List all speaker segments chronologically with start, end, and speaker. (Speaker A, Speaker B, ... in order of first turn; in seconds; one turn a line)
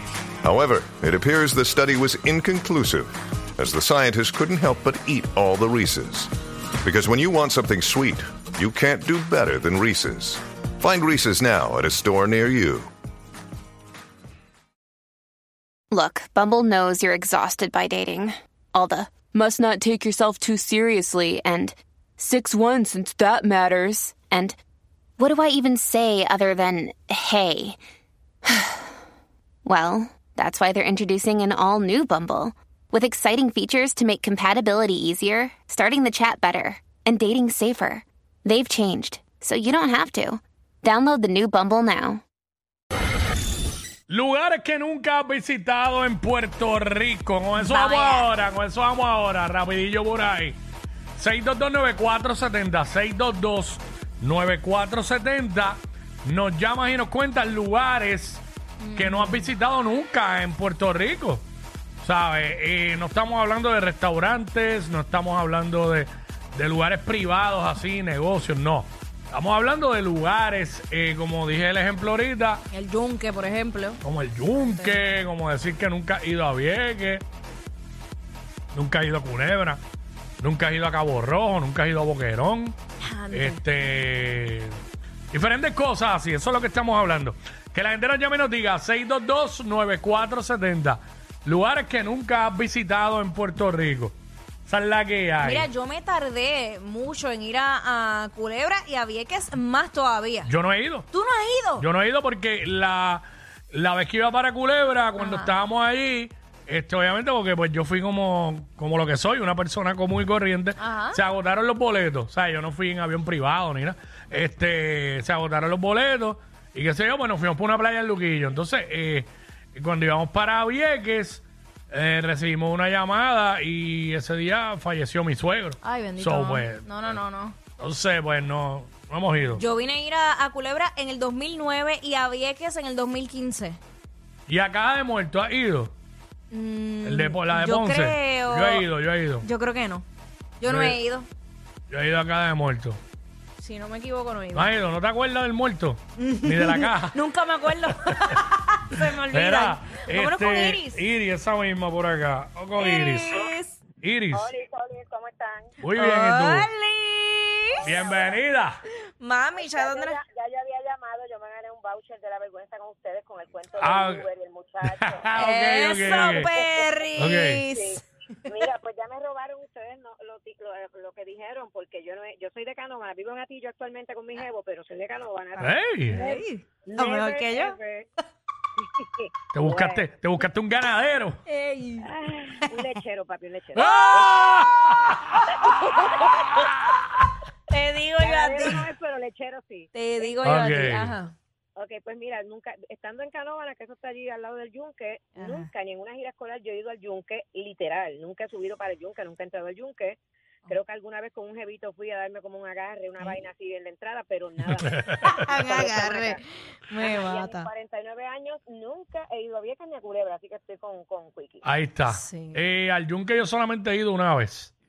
Speaker A: 0.4-6.3
Speaker A: 6.8-12.9
Speaker B: 15.9-24.6
Speaker B: 25.2-27.8
Speaker B: 28.5-28.8
Speaker B: 29.6-42.2
Speaker C: 44.1-50.6
Speaker D: 47.6-48.3
Speaker C: 51.2-58.4
Speaker D: 58.8-59.5
Speaker C: 59.0-61.5
Speaker C: 62.0-72.7
Speaker D: 72.7-75.0
Speaker C: 74.0-77.2
Speaker C: 78.7-79.8
Speaker C: 80.4-82.8
Speaker D: 83.0-83.8
Speaker C: 83.3-84.8
Speaker C: 85.3-95.7
Speaker D: 95.4-100.5
Speaker C: 100.5-101.1
Speaker D: 101.1-101.8
Speaker C: 101.8-127.2
Speaker D: 105.2-105.5
Speaker D: 110.8-111.2
Speaker D: 125.8-127.6
Speaker C: 127.8-129.6
Speaker D: 129.5-133.8
Speaker C: 134.5-135.9
Speaker D: 136.5-138.9
Speaker C: 137.0-139.5
Speaker D: 139.4-140.1
Speaker D: 140.6-141.3
Speaker C: 140.7-141.0
Speaker C: 141.9-143.0
Speaker D: 143.6-144.7
Speaker C: 144.5-147.2
Speaker D: 146.2-151.0
Speaker C: 147.9-148.1
Speaker C: 149.3-153.4
Speaker D: 152.8-153.8
Speaker C: 154.0-154.5
Speaker E: 154.3-155.8
Speaker C: 155.8-156.7
Speaker D: 156.0-157.8
Speaker E: 157.7-158.4
Speaker C: 157.8-158.8
Speaker D: 159.2-160.2
Speaker E: 159.5-165.3
Speaker C: 163.8-164.3
Speaker C: 164.9-166.5
Speaker D: 165.4-168.0
Speaker E: 165.9-178.1
Speaker C: 167.2-167.6
Speaker C: 175.6-176.2
Speaker D: 175.6-177.7
Speaker E: 178.8-180.1
Speaker C: 179.5-181.4
Speaker D: 181.5-183.0
Speaker E: 182.0-184.6
Speaker C: 183.8-185.4
Speaker E: 185.5-186.5
Speaker D: 185.5-186.3
Speaker C: 186.4-186.9
Speaker D: 187.7-188.8
Speaker E: 188.2-190.6
Speaker D: 189.9-191.3
Speaker C: 190.4-191.2
Speaker E: 191.8-206.4
Speaker D: 195.4-195.7
Speaker C: 204.7-205.3
Speaker D: 205.1-207.7
Speaker E: 207.0-211.7
Speaker C: 211.6-214.7
Speaker D: 212.1-212.6